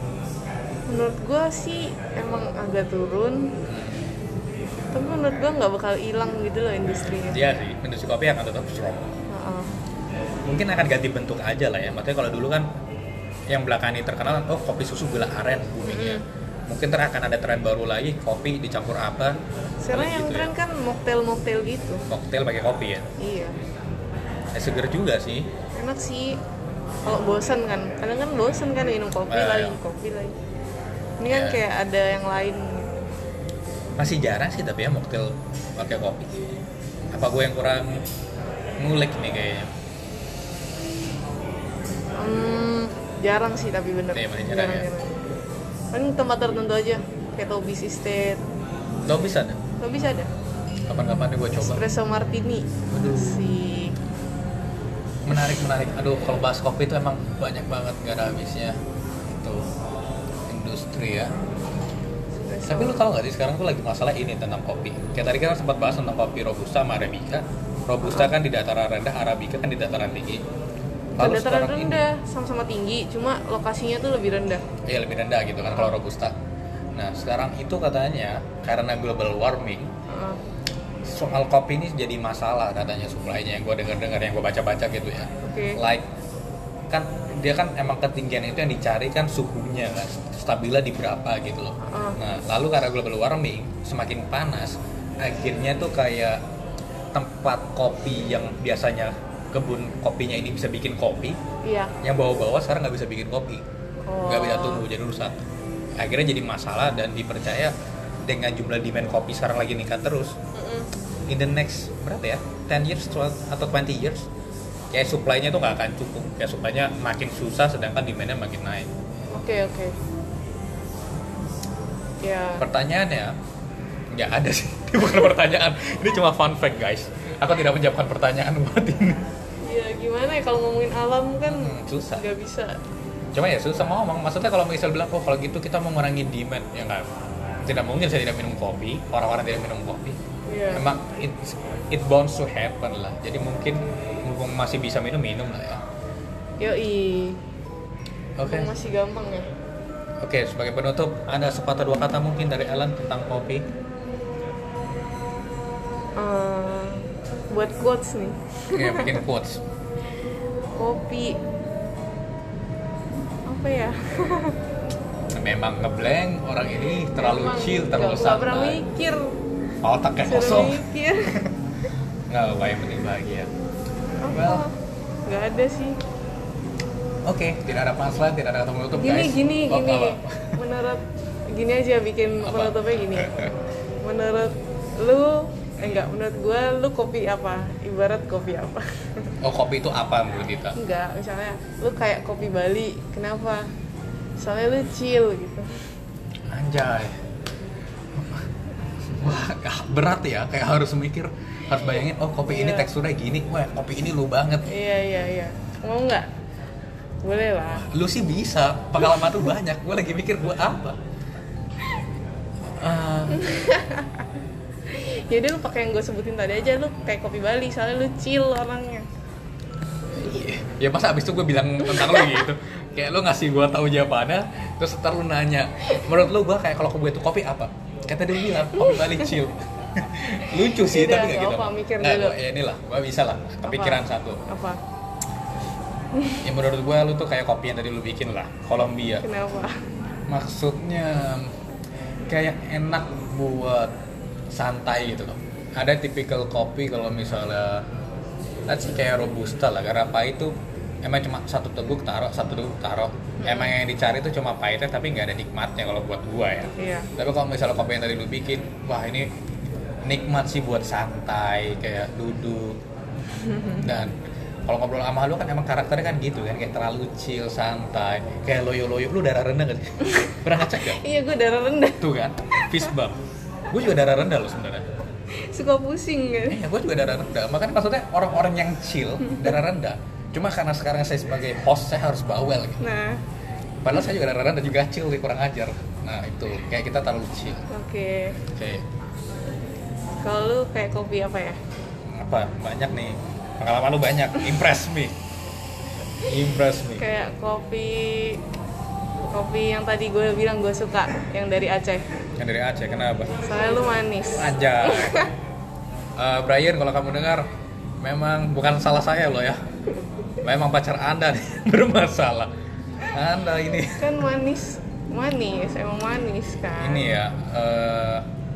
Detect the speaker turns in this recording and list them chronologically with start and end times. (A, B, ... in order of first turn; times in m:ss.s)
0:00.9-0:03.6 A
0:03.7-0:04.1 B
0:04.9-0:07.5 A
0:07.3-0:09.1 B
0:09.3-0:09.7 A
0:10.5-0:12.7 B
0:13.5-0:19.4 B
0:15.8-0:16.2 A
0:19.8-0:22.0 A
0:19.9-0:20.5 B
0:22.1-0:23.1 B
0:23.2-0:23.6 A
0:24.5-0:25.5 B
0:25.8-0:26.4 A
0:27.0-0:30.4 A
0:29.3-0:29.8 B
0:31.2-0:32.9 A
0:31.3-0:31.6 B
0:34.0-0:36.6 B
0:37.1-0:38.0 B
0:38.8-0:39.7 B
0:42.2-0:45.2 A
0:44.1-0:44.9 B
0:45.9-0:48.4 A
0:49.0-0:49.6 B
0:49.8-0:50.3 A
0:50.9-0:51.8 B
0:51.6-0:54.0 A
0:52.9-0:53.4 B
0:55.2-0:58.8 B
0:59.3-0:59.7 B
1:00.5-1:01.3 B
1:02.5-1:03.0 A
1:02.7-1:10.4 B
1:08.0-1:08.3 A
1:11.2-1:14.7 A
1:11.2-1:12.0 B
1:14.8-1:16.4 B
1:17.0-1:19.9 B
1:20.1-1:20.4 A
1:21.0-1:26.1 B
1:25.4-1:25.8 A
1:26.9-1:36.4 B
1:31.8-1:32.2 A
1:37.1-1:41.4 B
1:41.6-1:42.0 A
1:42.0-1:43.6 B
1:44.0-1:44.8 A
1:44.3-1:45.4 B
1:46.0-1:47.7 B
1:48.3-1:50.4 B
1:50.6-1:50.9 A
1:51.3-1:54.3 B
1:54.9-1:58.9 B
1:59.3-2:00.0 A
2:02.2-2:02.7 A
2:02.6-2:03.4 B
2:04.1-2:09.2 B
2:09.6-2:12.8 A
2:11.4-2:12.3 B
2:13.3-2:17.1 B
2:17.6-2:20.2 B
2:20.5-2:20.9 A
2:20.7-2:25.8 B
2:26.6-2:27.4 A
2:28.4-2:28.7 B
2:28.5-2:29.5 A
2:30.2-2:33.7 B
2:36.2-2:39.2 A
2:38.7-2:39.6 B
2:40.8-2:41.4 A
2:43.5-2:44.6 A
2:45.3-2:48.8 B
2:47.0-2:49.4 A
2:49.8-2:50.8 B
2:50.2-2:51.5 A
2:52.3-2:53.5 B
2:54.2-2:54.8 A
2:54.3-2:54.6 B
2:55.3-2:56.0 A
2:57.3-3:00.6 B
2:58.9-3:03.3 A
3:02.4-3:03.5 B
3:04.0-3:09.4 A
3:05.8-3:06.1 B
3:09.4-3:10.8 B
3:10.8-3:13.7 A
3:14.4-3:15.7 A
3:16.5-3:17.2 B
3:18.1-3:18.5 B
3:19.1-3:24.7 B
3:22.5-3:22.9 A
3:24.7-3:26.3 A
3:27.2-3:27.8 A
3:27.7-3:31.0 B
3:32.8-3:33.6 B
3:33.3-3:34.3 A
3:34.9-3:39.1 A
3:40.2-3:54.4 B
3:41.9-3:42.4 A
3:48.8-3:49.2 A
3:50.6-3:52.4 A
3:53.7-3:54.8 A
3:56.4-3:59.3 B
3:59.2-3:59.8 A
4:00.3-4:01.6 B
4:02.3-4:03.9 B
4:04.5-4:07.9 B
4:08.7-4:19.3 B
4:13.4-4:13.7 A
4:16.8-4:17.1 A
4:20.0-4:22.8 B
4:23.4-4:23.9 A
4:23.8-4:24.1 B
4:24.7-4:31.0 B
4:30.1-4:32.9 A
4:32.0-4:33.2 B
4:33.7-4:34.9 B
4:35.3-4:36.6 A
4:36.5-4:42.8 B
4:42.8-4:43.2 A
4:43.8-4:47.6 B
4:47.7-4:48.4 A
4:48.4-4:48.9 B
4:50.2-4:51.6 A
4:52.0-4:55.2 B
4:56.2-4:57.1 B
4:57.0-4:58.4 A
4:59.3-5:02.0 A
5:02.4-5:03.4 B
5:03.4-5:05.3 A
5:04.4-5:05.3 B
5:06.2-5:07.5 B
5:08.0-5:09.6 B
5:10.4-5:12.5 B
5:13.1-5:14.2 B
5:14.0-5:17.1 A
5:16.8-5:18.3 B